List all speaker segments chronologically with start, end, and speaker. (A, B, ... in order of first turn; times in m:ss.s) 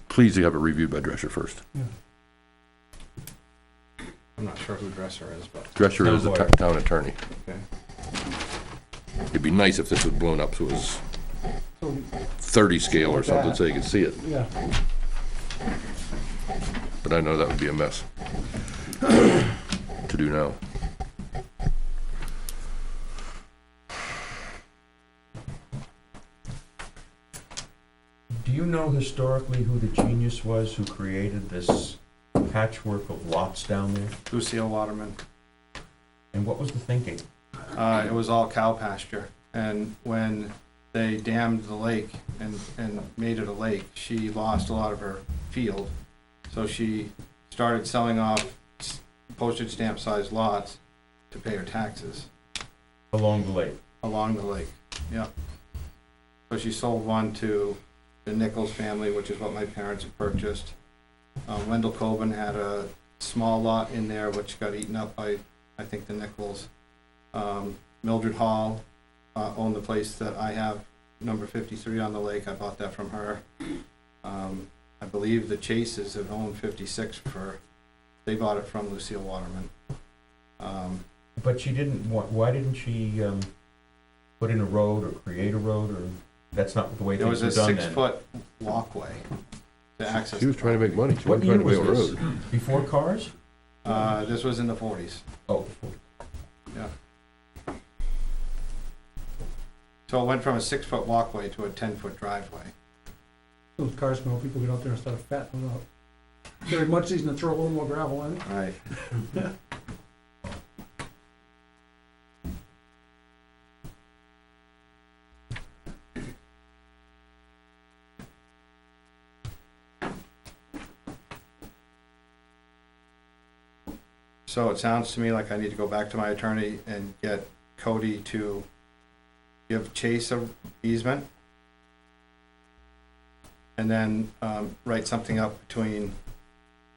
0:00.1-0:01.6 A
0:04.4-0:05.7 B
0:05.7-0:07.2 A
0:06.0-0:06.5 C
0:09.3-0:11.0 A
0:11.8-0:12.2 D
0:12.4-0:14.2 A
0:12.9-0:14.5 D
0:17.0-0:18.0 A
0:19.0-0:19.5 A
0:20.0-0:20.6 A
0:28.3-0:34.2 C
0:34.3-0:35.2 B
0:36.3-0:37.2 C
0:37.7-0:45.9 B
0:46.5-0:50.8 B
0:51.3-0:52.3 B
0:53.1-0:53.8 C
0:54.0-0:55.3 B
0:56.5-1:00.7 B
1:01.5-1:06.7 B
1:07.3-1:08.8 B
1:09.3-1:13.4 B
1:14.2-1:17.6 B
1:18.2-1:19.7 B
1:20.6-1:21.0 B
1:21.4-1:23.5 C
1:24.4-1:28.0 C
1:27.2-1:29.2 B
1:30.0-1:31.0 B
1:30.1-1:32.4 A
1:31.2-1:33.3 C
1:33.8-1:35.2 B
1:35.5-1:36.0 C
1:40.1-1:42.7 B
1:43.8-1:45.8 D
1:46.6-1:48.4 D
1:48.4-1:48.8 B
1:49.1-1:49.5 D
2:04.5-2:08.6 B
2:09.7-2:11.2 B
2:13.8-2:16.1 B